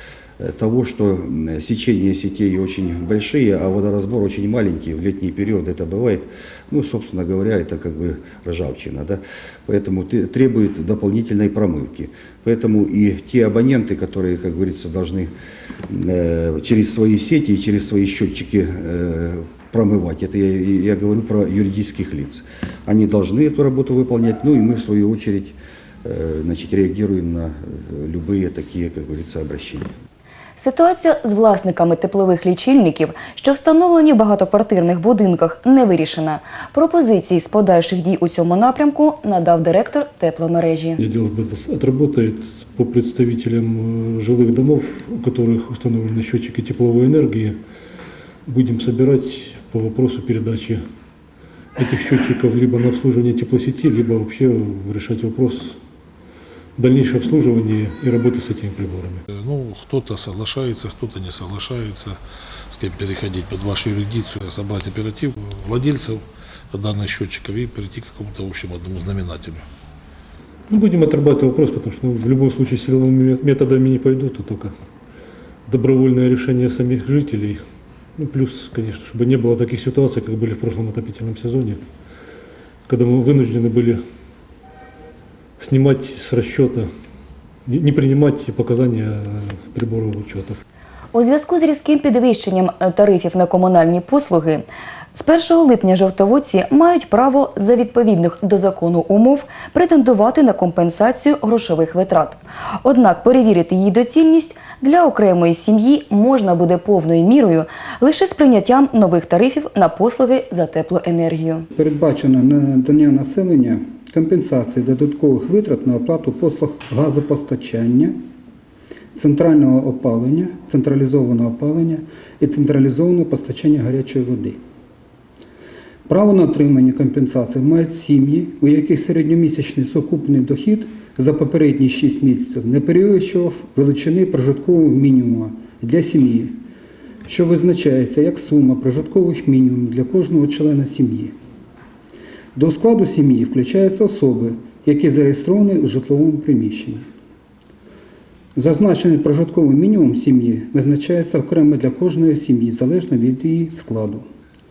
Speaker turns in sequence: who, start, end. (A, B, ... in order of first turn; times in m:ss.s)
0:00.4-0:15.3 A
0:15.9-0:29.9 A
0:30.6-0:41.0 B
0:41.0-0:47.6 C
0:48.5-0:50.8 C
0:51.8-0:55.8 C
0:56.8-0:59.2 C
0:59.3-1:02.2 D
1:02.7-1:09.6 D
1:10.7-1:14.7 C
1:15.7-1:17.6 C
1:18.2-1:21.8 C
1:22.9-1:24.0 C
1:25.6-1:26.9 C
1:27.6-1:30.6 C
1:31.1-1:51.6 B
1:51.7-1:58.2 E
1:59.1-2:04.6 E
2:06.1-2:16.6 E
2:17.3-2:21.3 E
2:22.5-2:27.0 E
2:28.6-2:34.2 E